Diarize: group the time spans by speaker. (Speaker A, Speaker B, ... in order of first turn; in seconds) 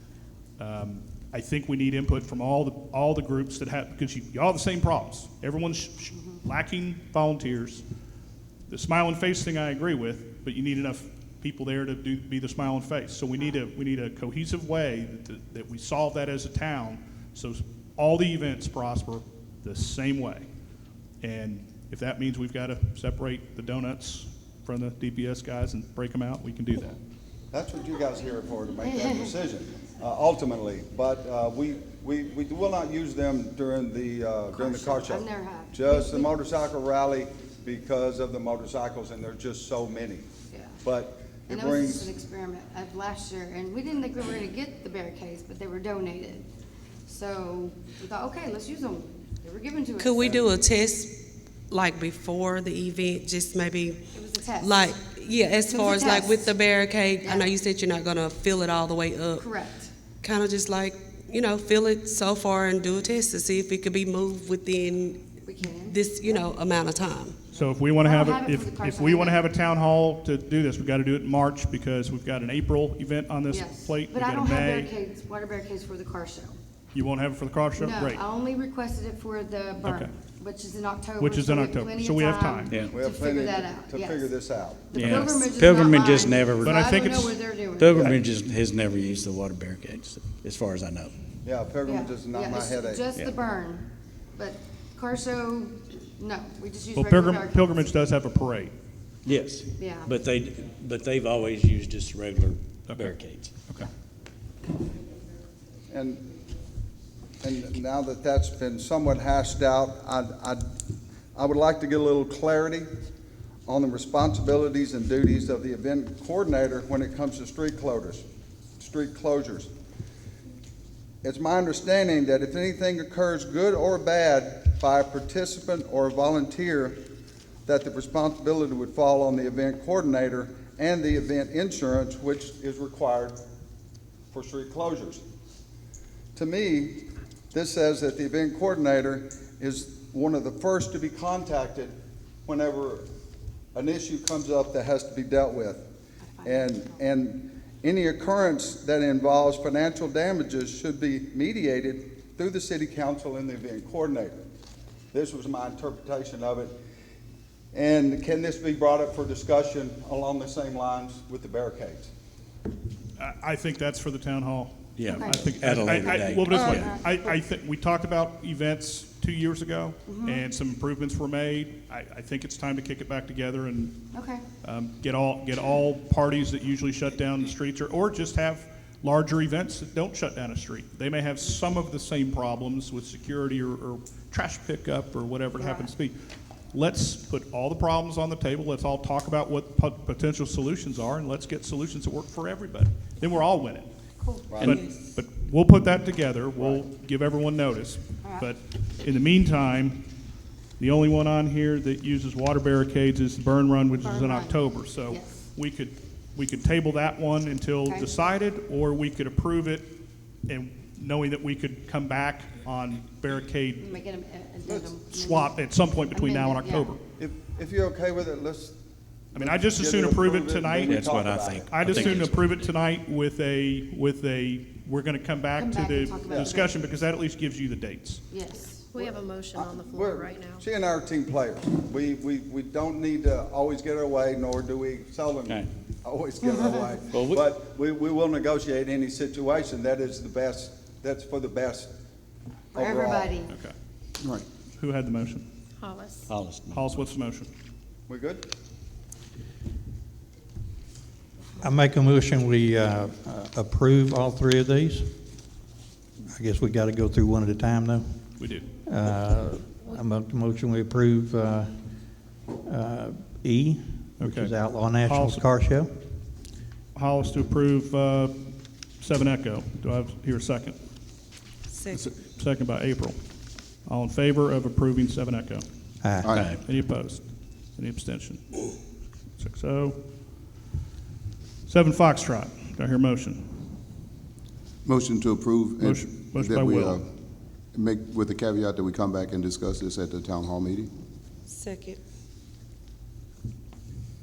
Speaker A: 0.6-7.8, 8.7-20.5, 21.2-27.0, 67.5-74.9, 76.9-78.2, 79.8-80.1, 81.2-82.8, 86.6-87.4, 96.9-98.7, 102.9-103.9, 163.2-174.1, 174.6-186.2, 186.7-193.9, 194.6-200.0, 200.8-213.9, 215.1-217.0, 219.3-228.3, 243.5-243.7, 244.8-245.4, 246.7-247.5, 258.4-258.7, 264.2-265.4, 266.9-270.8, 272.3-273.2, 273.8-275.6, 276.4-278.6, 279.4-280.0, 281.6-283.8, 285.8-287.0
Speaker B: 27.5-40.3, 40.8-42.1, 82.9-85.4, 91.4-93.0, 105.9-106.2, 107.4-110.6, 111.3-112.9, 113.7-118.2, 118.8-119.7, 121.2-127.0, 127.7-133.4, 134.3-135.2, 136.3-137.0, 137.5-141.9, 142.4-143.0, 143.7-145.8, 146.4-154.4, 155.1-156.8, 157.7-162.1, 194.5-194.8, 196.6-196.8, 217.2-218.8, 219.3-221.7, 226.3-226.5, 229.5-241.9, 242.7-243.3, 248.1-248.4
Speaker C: 28.8-29.3, 34.5-36.4, 40.5-40.8, 41.5-46.5, 47.0-50.4, 54.1-54.9, 55.7-56.5, 57.2-57.5, 59.4-59.9, 65.4-66.4, 68.0-69.5, 73.5-76.6, 77.8-88.2, 91.8-97.8, 99.8-100.1, 146.3-147.0, 165.0-167.4, 170.1-170.4, 174.1-174.4, 185.6-185.9, 194.2-194.6, 198.2-198.5, 204.0-205.4, 213.8-217.0, 225.6-226.8, 228.3-228.9, 236.4-237.0, 242.7-243.5
Speaker D: 50.0-54.0, 54.6-59.5, 60.2-67.4, 194.6-194.9, 271.7-272.1, 291.5-292.0
Speaker E: 82.7-83.0, 84.9-91.1, 99.2-103.5, 165.0-167.0, 220.8-222.5, 237.1-237.5, 246.3-247.0, 276.2-276.6
Speaker F: 228.9-230.7, 245.8-246.3
Speaker G: 251.6-255.1, 256.3-261.7, 262.6-265.9, 276.0-276.5
Speaker H: 284.9-287.1, 287.7-290.9